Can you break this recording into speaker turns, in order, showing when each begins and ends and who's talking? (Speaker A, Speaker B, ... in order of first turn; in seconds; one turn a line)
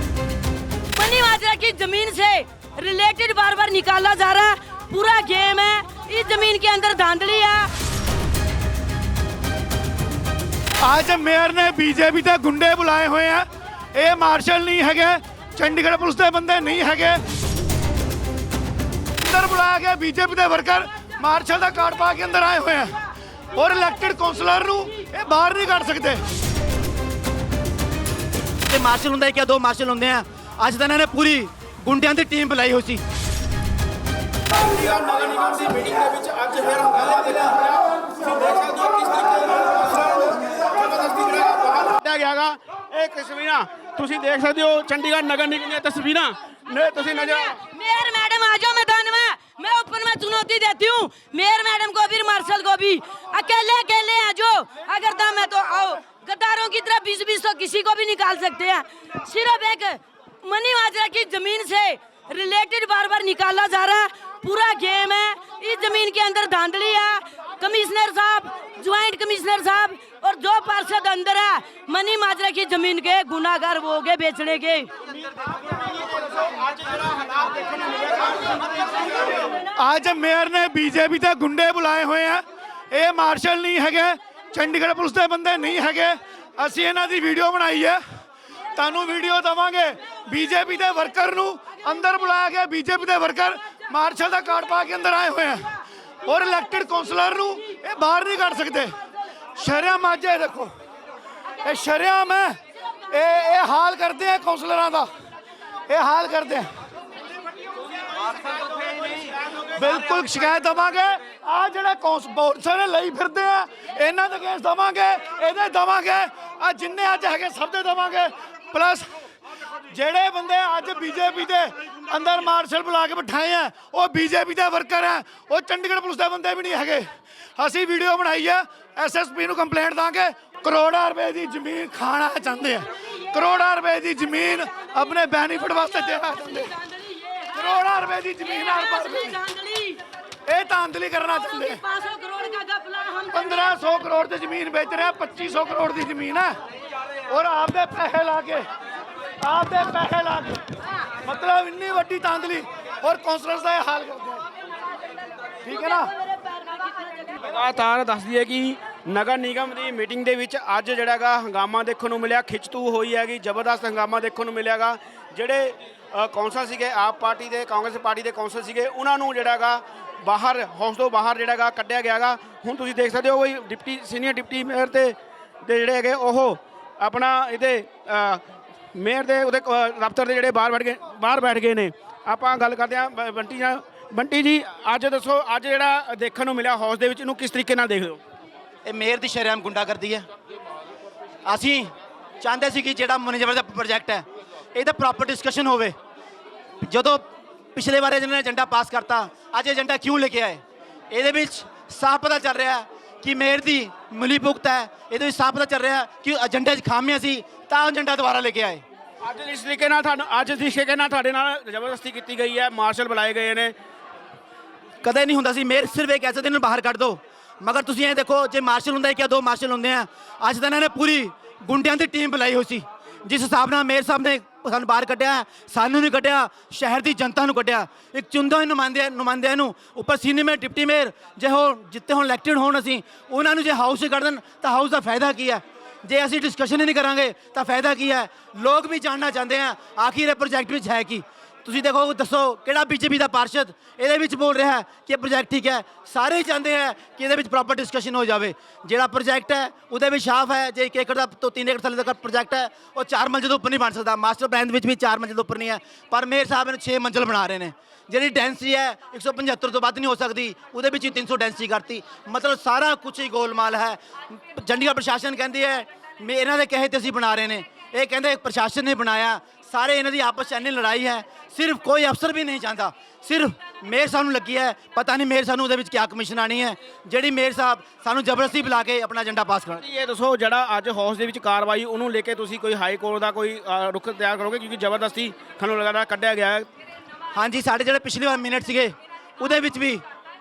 Speaker A: 0.9-7.7
Speaker B: 10.8-17.2
Speaker B: 19.2-22.9
Speaker B: 23.5-26.2
Speaker C: 28.6-33.0
Speaker D: 34.5-47.5
Speaker A: 47.0-74.9
Speaker D: 75.9-79.3
Speaker B: 79.7-88.0
Speaker B: 88.8-98.9
Speaker B: 99.6-100.7
Speaker B: 101.6-102.5
Speaker B: 103.1-105.0
Speaker B: 105.9-106.7
Speaker B: 109.7-119.0
Speaker B: 119.9-136.7
Speaker A: 137.1-137.8
Speaker B: 137.5-139.4
Speaker A: 138.4-140.0
Speaker B: 140.5-141.8
Speaker A: 141.4-143.9
Speaker B: 143.3-146.5
Speaker B: 147.3-148.7
Speaker B: 149.4-150.6
Speaker B: 151.2-154.4
Speaker B: 155.6-156.1
Speaker A: 156.3-157.4
Speaker D: 157.4-178.4
Speaker D: 178.9-188.2
Speaker C: 188.8-190.2
Speaker C: 191.4-195.9
Speaker C: 196.8-208.8
Speaker D: 209.2-213.7
Speaker C: 215.0-279.8
Speaker D: 279.8-286.7
Speaker C: 287.3-290.0